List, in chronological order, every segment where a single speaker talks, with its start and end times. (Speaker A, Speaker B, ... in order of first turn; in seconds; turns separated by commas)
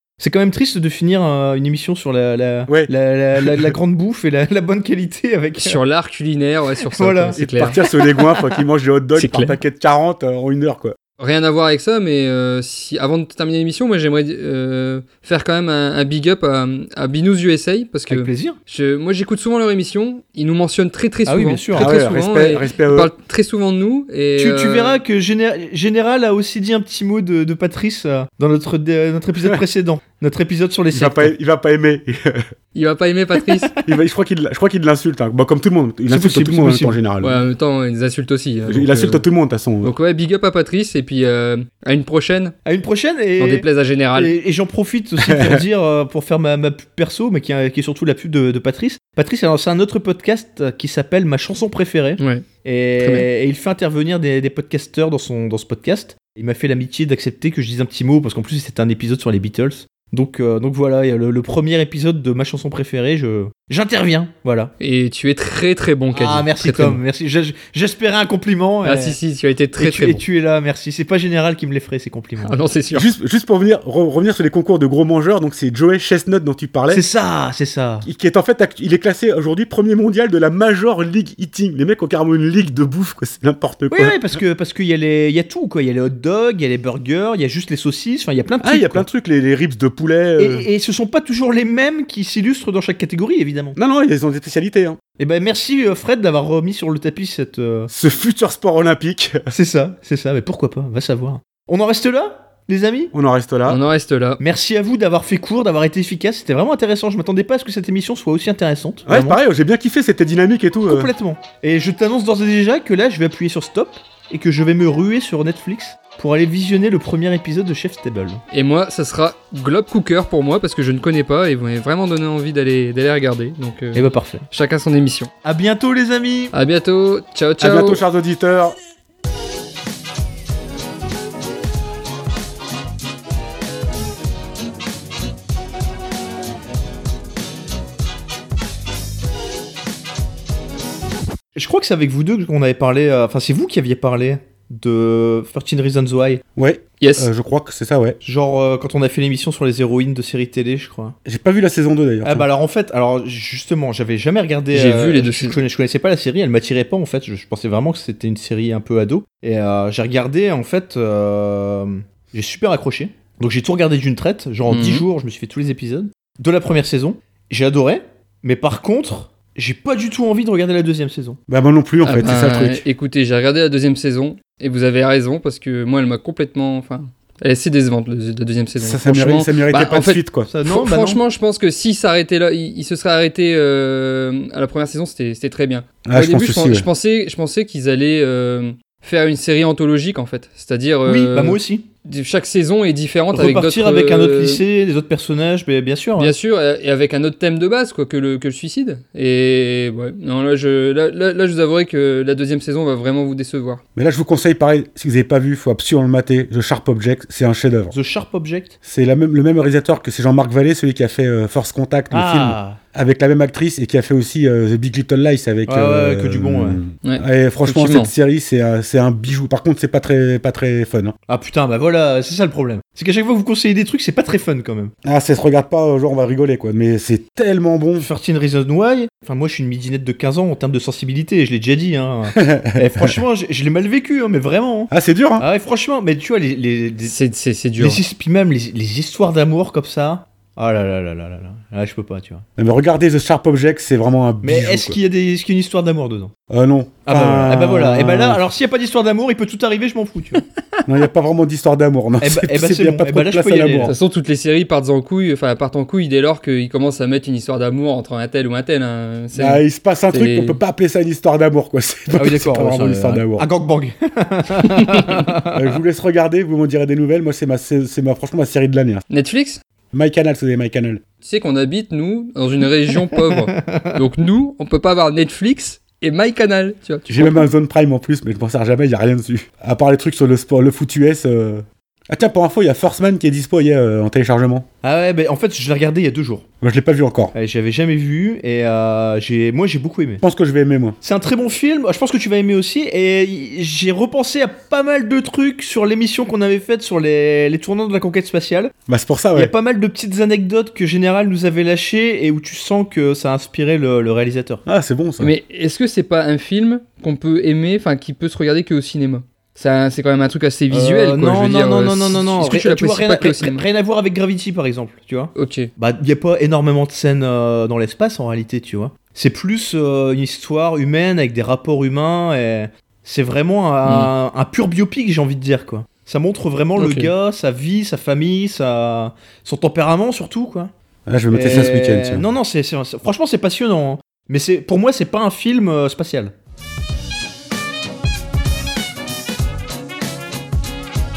Speaker A: 0.2-5.8, Speaker B: 2.7-3.7, Speaker C: 5.6-7.8, Speaker A: 6.9-8.2, Speaker B: 7.4-10.9, Speaker C: 9.2-9.5, Speaker C: 11.2-25.0, Speaker A: 18.1-18.6, Speaker A: 21.2-21.9, Speaker B: 21.8-23.1, Speaker A: 24.4-31.3, Speaker B: 30.9-32.5, Speaker C: 32.7-33.7, Speaker B: 33.8-37.4, Speaker A: 36.1-37.0, Speaker C: 37.2-39.2, Speaker B: 38.7-39.9, Speaker C: 39.8-42.5, Speaker A: 42.6-64.7, Speaker C: 43.4-44.3, Speaker B: 45.2-45.6, Speaker C: 52.2-52.4, Speaker C: 53.0-53.3, Speaker C: 64.8-67.0, Speaker A: 66.1-69.2, Speaker C: 68.8-70.2, Speaker A: 69.8-72.5, Speaker C: 72.4-73.1, Speaker B: 72.9-77.0, Speaker A: 76.9-78.1, Speaker B: 78.0-84.2, Speaker A: 83.9-89.1, Speaker B: 88.6-90.7, Speaker A: 90.4-93.8, Speaker B: 93.8-95.0, Speaker A: 95.2-97.9, Speaker B: 97.9-99.5, Speaker A: 99.5-103.1, Speaker B: 103.1-103.8, Speaker C: 103.7-104.4, Speaker A: 104.4-109.4, Speaker B: 109.1-111.1, Speaker A: 110.9-118.4, Speaker C: 118.5-125.3, Speaker A: 123.9-124.5, Speaker A: 125.4-126.5, Speaker C: 126.5-128.0, Speaker B: 127.6-128.8, Speaker A: 141.5-146.4, Speaker B: 146.6-148.2, Speaker C: 147.0-147.3, Speaker A: 148.2-151.2, Speaker B: 151.2-152.5, Speaker A: 152.2-171.4, Speaker C: 154.7-155.6, Speaker C: 164.7-165.0, Speaker B: 171.5-172.8, Speaker C: 172.0-194.6, Speaker B: 178.8-180.5, Speaker A: 180.5-181.2, Speaker B: 186.0-186.8, Speaker A: 191.1-191.8, Speaker A: 193.3-196.3, Speaker C: 196.2-203.8, Speaker B: 203.9-207.9, Speaker A: 207.9-208.7, Speaker B: 208.8-221.1, Speaker A: 212.1-212.8, Speaker A: 215.7-216.8, Speaker C: 217.0-218.1, Speaker A: 221.3-224.9, Speaker B: 225.0-228.1, Speaker A: 228.0-237.1, Speaker B: 232.4-233.2, Speaker B: 234.9-235.4, Speaker C: 237.1-238.0, Speaker A: 237.8-242.4, Speaker B: 242.6-245.0, Speaker A: 244.4-246.3, Speaker B: 246.5-248.4, Speaker A: 247.1-250.4, Speaker B: 250.9-253.9, Speaker A: 252.2-253.9, Speaker C: 253.8-260.6, Speaker B: 259.4-263.4, Speaker A: 262.1-265.6, Speaker B: 265.5-269.0, Speaker C: 269.1-269.6, Speaker B: 269.9-271.0, Speaker C: 271.2-277.4, Speaker A: 273.3-273.9, Speaker B: 277.1-284.6, Speaker A: 284.8-286.4, Speaker B: 286.6-287.3, Speaker A: 287.3-290.2, Speaker B: 290.2-291.0, Speaker A: 291.0-298.7, Speaker B: 298.9-299.5, Speaker A: 299.3-304.6, Speaker B: 304.6-305.3, Speaker C: 305.2-313.6, Speaker A: 310.7-330.7, Speaker C: 315.4-315.7, Speaker C: 326.8-327.1, Speaker B: 331.1-332.2, Speaker A: 331.3-336.3